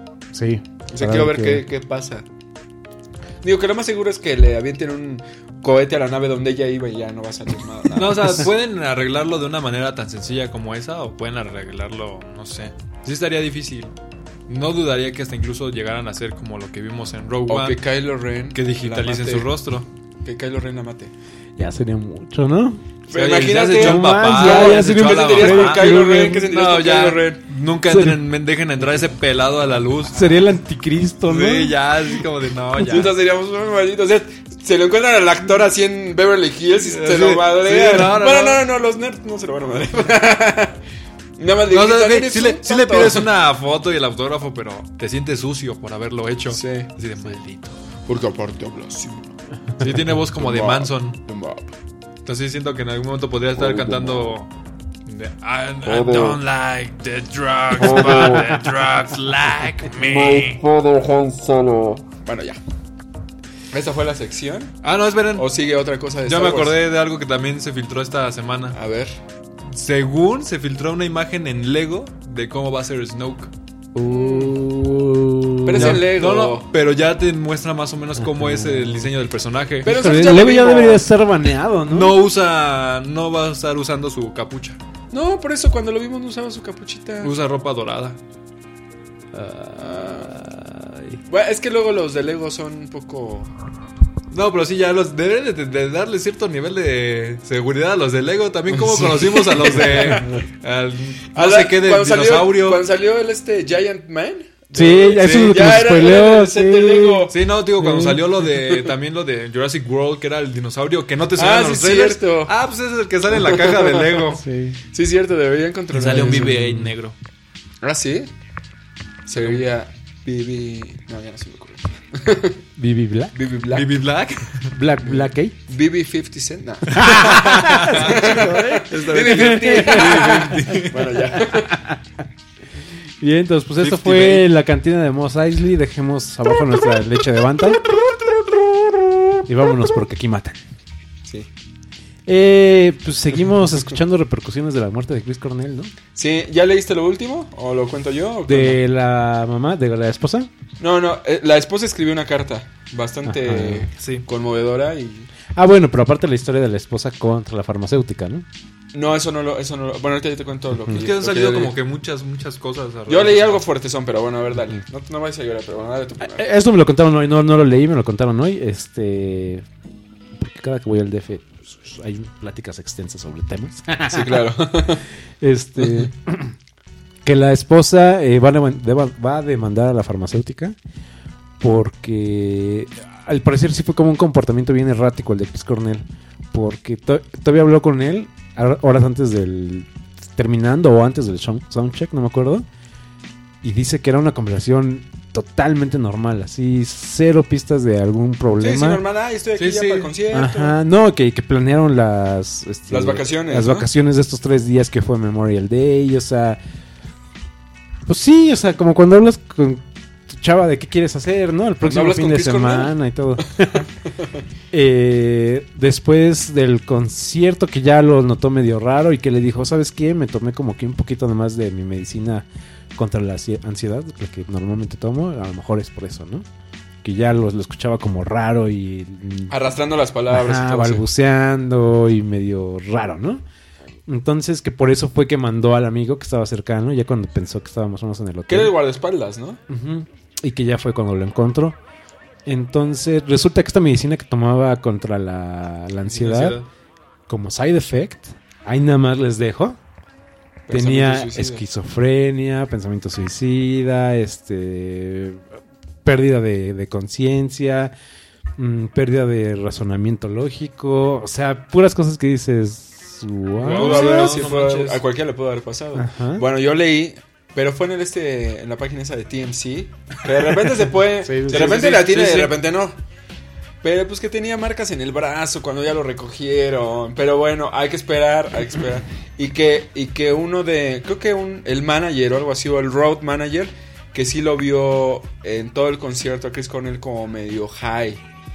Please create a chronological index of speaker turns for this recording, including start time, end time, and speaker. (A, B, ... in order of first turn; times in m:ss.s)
0:00.3-0:01.6 A
0:00.9-0:02.3 B
0:03.4-0:08.5 B
0:07.9-0:13.9 C
0:14.5-0:17.8 C
0:17.5-0:19.5 B
0:18.5-0:19.9 C
0:20.2-0:21.1 B
0:21.6-0:22.8 A
0:23.1-0:27.4 B
0:23.1-0:30.4 C
0:23.6-0:26.4 A
0:27.9-0:28.2 A
0:30.1-0:31.8 A
0:31.2-0:33.2 C
0:32.8-0:40.8 B
0:36.8-0:38.6 C
0:41.4-0:43.3 B
0:41.7-0:47.8 C
0:46.5-0:46.9 B
0:48.0-0:49.3 B
0:49.8-0:51.2 C
0:50.3-0:51.7 B
0:52.2-0:54.5 C
0:53.6-0:54.3 D
0:55.0-1:00.6 C
0:55.8-0:56.4 D
0:57.8-0:58.6 D
0:59.9-1:02.1 D
1:02.2-1:02.6 B
1:03.7-1:04.8 B
1:04.8-1:05.5 C
1:05.3-1:06.8 B
1:06.2-1:08.8 C
1:08.7-1:09.2 B
1:09.6-1:13.5 C
1:13.9-1:16.0 A
1:14.0-1:14.6 B
1:15.6-1:16.7 B
1:15.8-1:19.9 C
1:18.2-1:19.1 A
1:19.8-1:21.1 B
1:19.8-1:22.2 A
1:21.9-1:24.8 C
1:25.1-1:27.3 B
1:27.2-1:28.2 C
1:29.3-1:31.2 A
1:29.8-1:30.3 B
1:31.3-1:33.5 B
1:34.3-1:42.8 C
1:38.8-1:40.2 B
1:39.9-1:40.4 A
1:41.3-1:47.4 B
1:44.7-1:48.2 A
1:45.1-1:45.8 C
1:47.3-1:54.4 C
1:51.4-1:52.5 B
1:53.3-1:54.2 B
1:54.4-1:54.8 A
1:54.9-1:56.6 B
1:55.9-1:57.2 C
1:56.4-1:56.9 A
1:57.8-1:58.3 B
1:59.2-2:02.6 B
2:02.8-2:03.4 A
2:03.3-2:03.9 B
2:03.7-2:04.7 C
2:04.7-2:05.6 A
2:05.0-2:11.8 B
2:06.9-2:10.9 A
2:07.0-2:11.2 C
2:11.4-2:12.0 A
2:13.2-2:17.8 A
2:13.8-2:14.5 C
2:19.4-2:20.6 A
2:22.3-2:25.9 A
2:26.1-2:28.8 B
2:28.4-2:30.5 A
2:30.8-2:35.3 B
2:33.2-2:33.9 A
2:34.0-2:34.2 C
2:35.5-2:38.4 A
2:38.9-2:41.8 B
2:40.9-2:43.6 C
2:43.1-2:46.4 B
2:46.2-2:49.6 A
2:50.4-2:54.5 A
2:54.1-2:55.0 B
2:55.4-2:56.5 A
2:55.8-2:56.1 B
2:57.2-3:00.8 A
3:01.6-3:12.6 A
3:13.6-3:19.0 A
3:18.6-3:20.8 B
3:19.6-3:20.1 C
3:20.3-3:26.6 A
3:22.9-3:23.9 B
3:28.0-3:33.9 A
3:31.8-3:33.4 B
3:34.0-3:34.4 B
3:34.7-3:46.4 A
3:47.0-3:49.6 A
3:49.5-3:51.0 B
3:50.3-3:53.4 A
3:54.0-3:58.8 A
3:58.5-3:59.6 B
3:59.7-4:01.8 A
4:02.4-4:06.6 A
4:06.1-4:06.6 C
4:07.3-4:09.8 A
4:10.7-4:11.6 B
4:10.7-4:15.4 A
4:16.0-4:17.9 A
4:18.6-4:24.4 A
4:23.6-4:25.0 C
4:23.7-4:33.0 B
4:25.9-4:26.4 A
4:31.1-4:31.9 A
4:31.5-4:32.6 C
4:33.8-4:48.2 B